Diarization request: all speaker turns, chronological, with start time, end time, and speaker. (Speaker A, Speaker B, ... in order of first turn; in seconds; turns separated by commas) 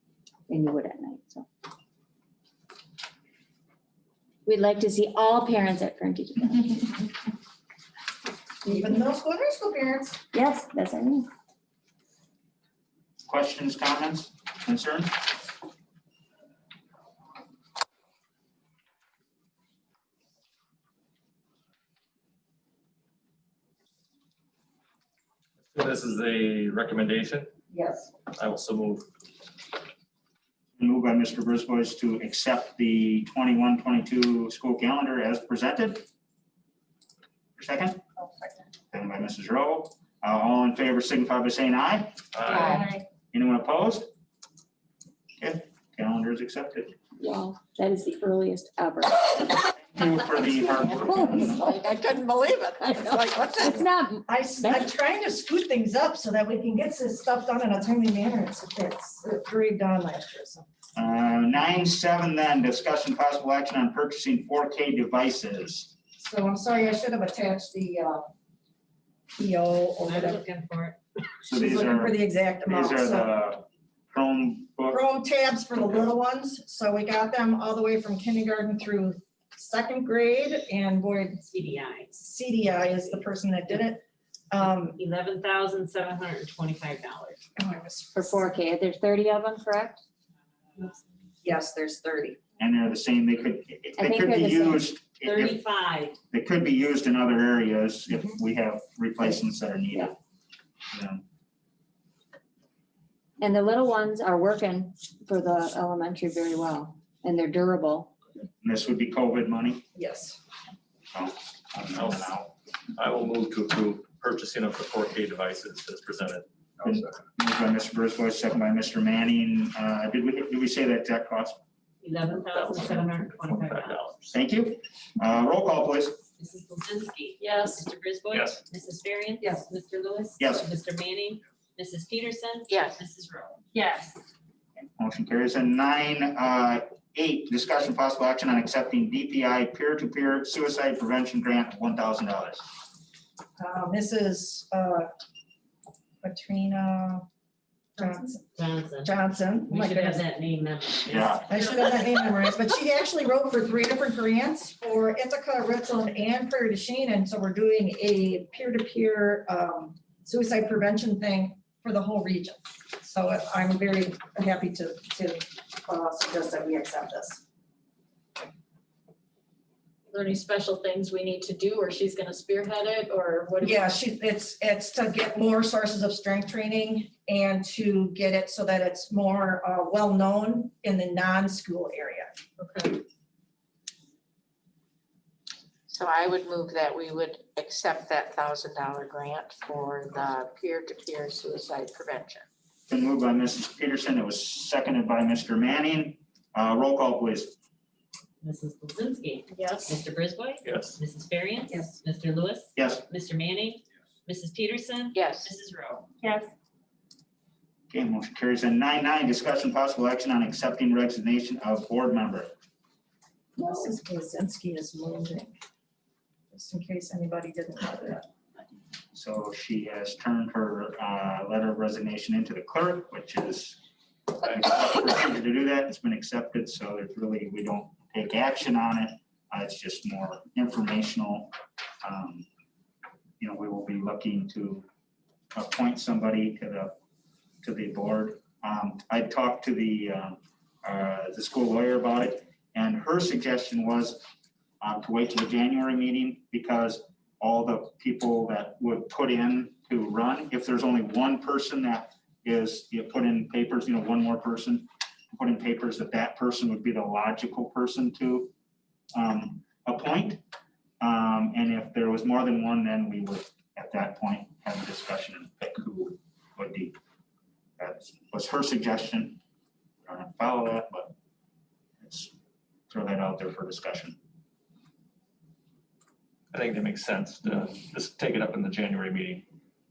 Speaker A: 0.5-1.4, Speaker A: 4.5-7.1, Speaker B: 8.6-10.2, Speaker A: 10.3-11.3, Speaker C: 13.3-15.2, Speaker D: 25.6-27.5, Speaker B: 27.7-28.1, Speaker D: 28.3-29.0, Speaker C: 30.8-36.0, Speaker C: 37.6-38.0, Speaker C: 38.9-42.2, Speaker D: 42.3-42.8, Speaker C: 43.3-44.1, Speaker C: 45.4-46.9, Speaker A: 47.2-49.6, Speaker C: 49.9-51.6, Speaker A: 50.5-54.9, Speaker B: 54.3-60.6, Speaker C: 60.9-65.9, Speaker B: 66.2-68.3, Speaker B: 69.3-70.4, Speaker E: 70.0-71.0, Speaker B: 71.4-73.3, Speaker C: 71.5-75.0, Speaker B: 74.9-81.4, Speaker E: 81.4-82.2, Speaker B: 82.2-85.0, Speaker E: 84.9-87.4, Speaker B: 87.5-88.4, Speaker A: 88.1-90.0, Speaker B: 91.4-92.4, Speaker C: 92.6-95.6, Speaker A: 94.0-94.9, Speaker E: 95.2-96.2, Speaker C: 96.3-100.1, Speaker C: 100.9-101.2, Speaker A: 103.4-108.1, Speaker C: 108.6-109.8, Speaker B: 109.9-110.4, Speaker C: 111.1-112.5, Speaker D: 112.0-112.3, Speaker D: 113.0-117.1, Speaker C: 116.8-121.6, Speaker E: 122.0-124.1, Speaker D: 122.4-124.4, Speaker C: 124.3-126.2, Speaker E: 126.4-133.8, Speaker F: 127.4-127.8, Speaker D: 128.3-128.6, Speaker C: 130.4-130.7, Speaker G: 132.7-133.0, Speaker C: 135.0-142.6, Speaker B: 143.6-145.1, Speaker B: 146.2-147.2, Speaker B: 147.9-148.4, Speaker E: 148.5-151.6, Speaker B: 149.0-150.2, Speaker C: 151.1-151.5, Speaker B: 151.5-167.4, Speaker F: 170.1-173.9, Speaker B: 173.6-182.3, Speaker F: 182.6-183.0, Speaker G: 185.9-190.4, Speaker F: 186.2-192.4, Speaker C: 192.9-197.6, Speaker E: 198.4-206.1, Speaker F: 199.6-199.9, Speaker D: 200.6-201.0, Speaker C: 202.8-203.0, Speaker G: 205.1-205.5, Speaker C: 207.9-212.5, Speaker B: 213.6-215.5, Speaker B: 216.5-218.2, Speaker C: 219.1-232.4, Speaker C: 233.4-234.8, Speaker C: 235.5-236.9, Speaker C: 237.6-244.2, Speaker C: 244.8-258.5, Speaker C: 259.1-260.4, Speaker C: 261.0-266.9, Speaker C: 267.8-269.4, Speaker C: 270.0-271.1, Speaker C: 272.0-272.3, Speaker C: 272.9-274.1, Speaker D: 276.5-279.5